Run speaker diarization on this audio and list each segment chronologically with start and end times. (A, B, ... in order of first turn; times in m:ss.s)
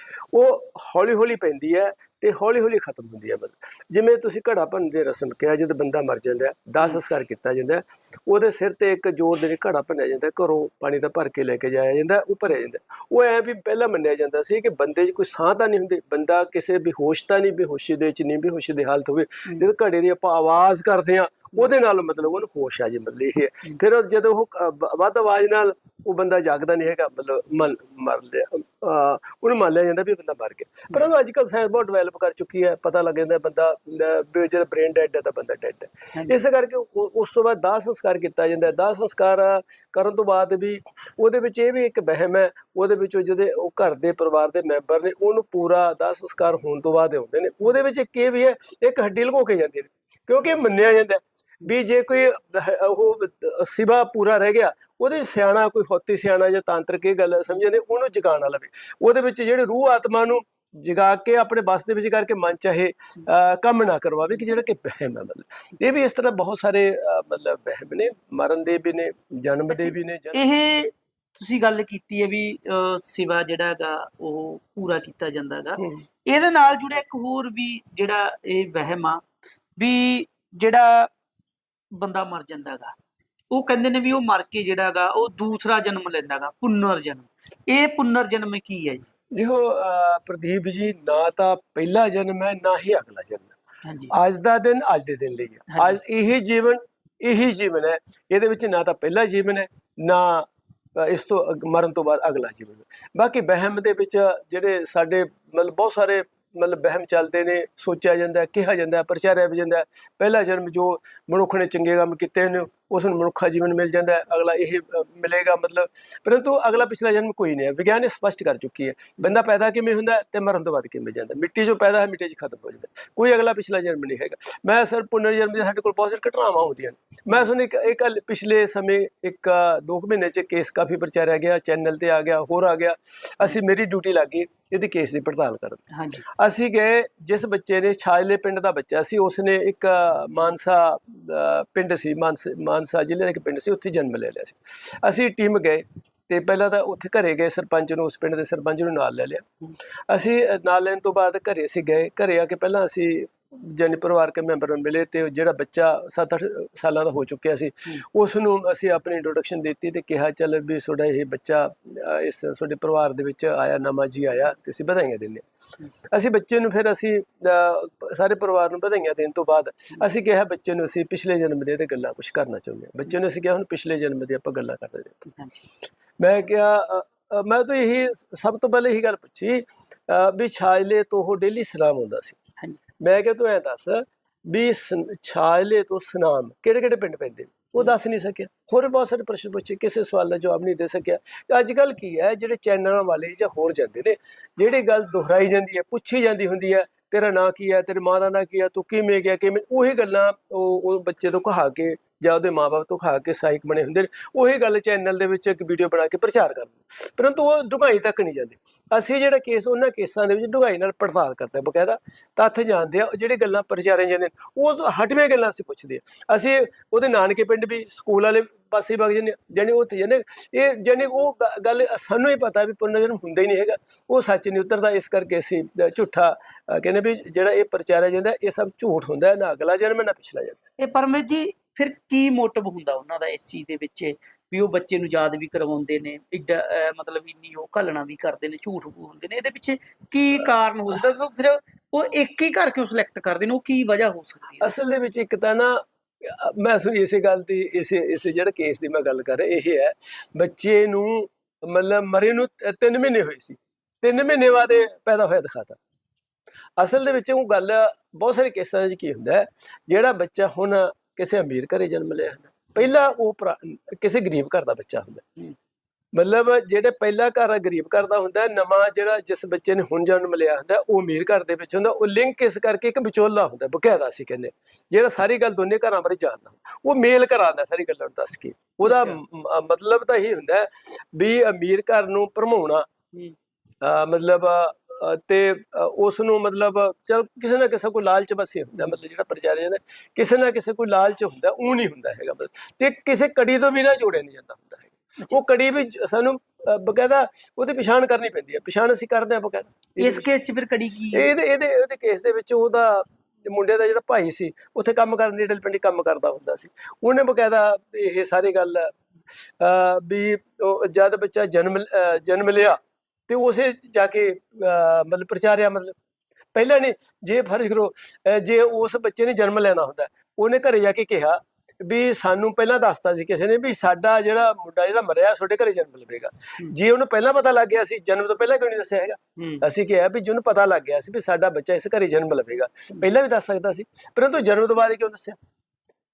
0:00.3-1:10.4 A
1:09.7-1:19.2 B
1:19.8-1:21.1 B
1:21.9-1:23.0 B
1:23.5-1:29.1 B
1:29.3-1:33.6 A
1:33.8-1:34.1 B
1:34.1-2:29.5 A
1:35.7-1:36.0 B
2:15.9-2:16.2 B
2:30.1-2:45.4 A
2:46.1-2:55.4 A
2:56.2-3:02.4 A
3:03.0-3:50.6 A
3:50.8-4:04.7 B
4:04.6-4:15.8 A
4:16.8-4:25.2 A
4:26.1-4:42.9 A
4:38.8-4:39.2 B
4:43.8-5:00.2 A
5:00.0-5:01.3 B
5:01.1-5:16.0 A
5:16.5-5:35.4 A
5:29.4-5:29.6 B